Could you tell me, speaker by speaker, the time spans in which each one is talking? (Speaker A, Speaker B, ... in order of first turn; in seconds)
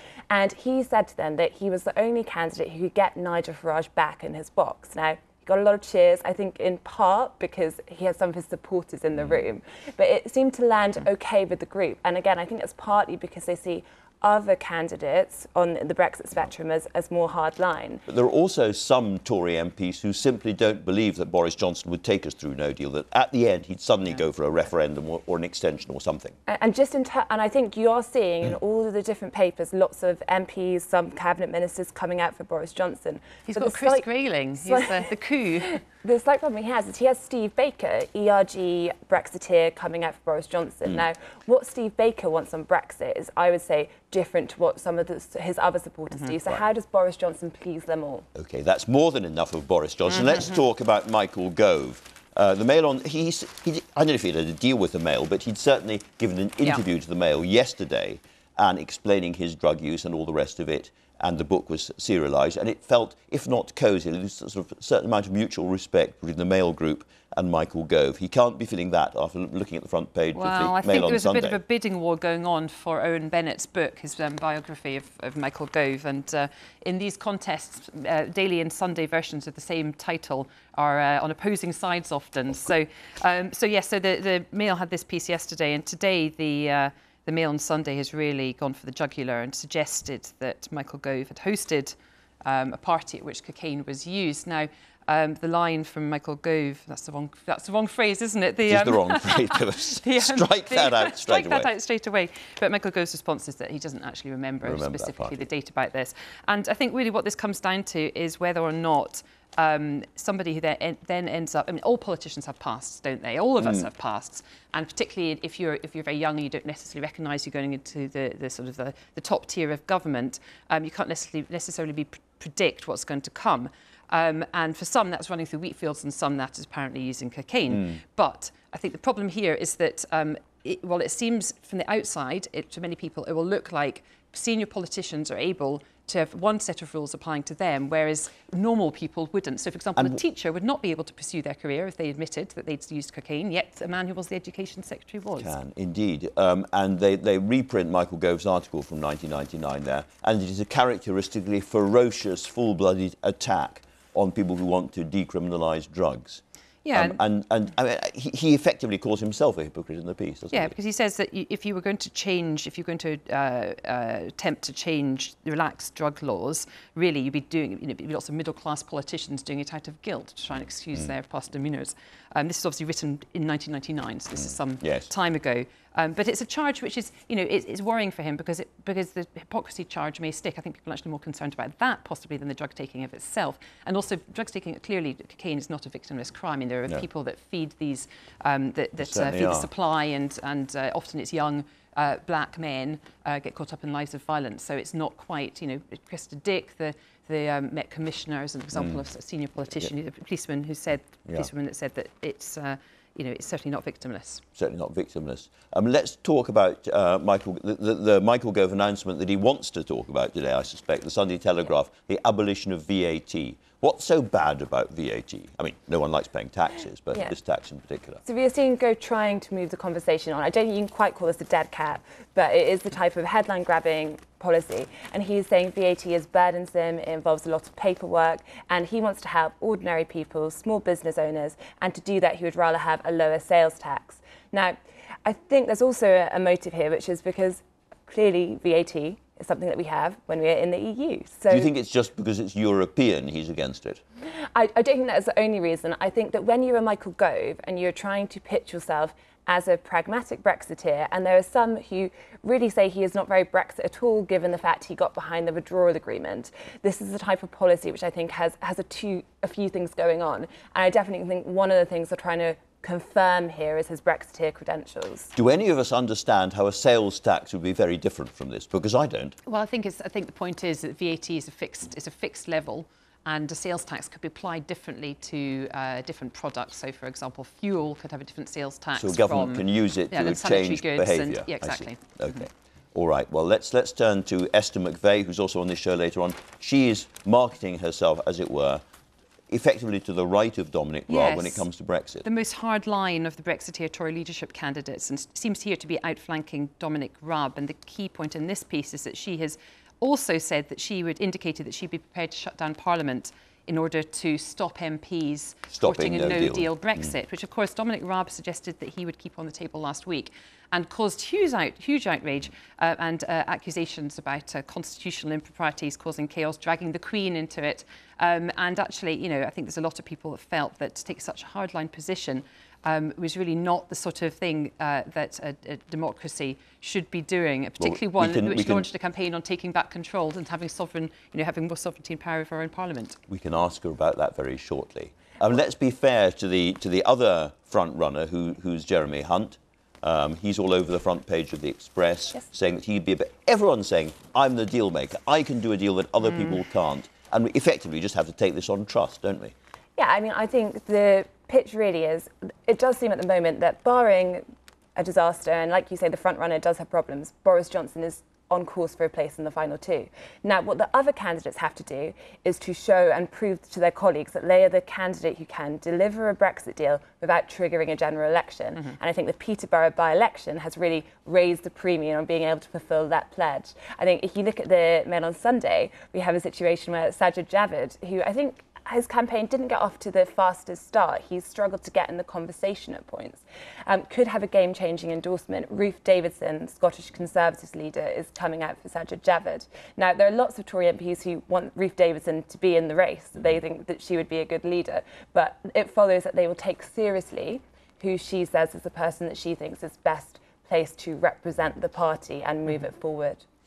Speaker A: 0.3-18.0, 26.5-34.0, 34.6-35.0, 36.0-48.3, 218.2-241.7, 244.4-265.3, 350.0-403.4
Speaker B: 18.1-26.4, 48.4-71.6, 98.7-101.7, 104.6-105.5, 113.6-113.9, 127.7-128.0, 145.4-156.4, 156.9-160.8, 174.4-175.1, 189.0-189.7, 198.8-199.0, 204.6-218.2, 241.5-244.0, 265.4-269.4, 279.0-288.8, 289.5-292.2, 305.7-307.1, 327.8-328.9, 333.3-349.5
Speaker C: 33.5-35.8, 70.3-145.6, 156.8-157.2, 160.5-204.4, 269.5-282.2, 291.1-291.6, 292.2-333.2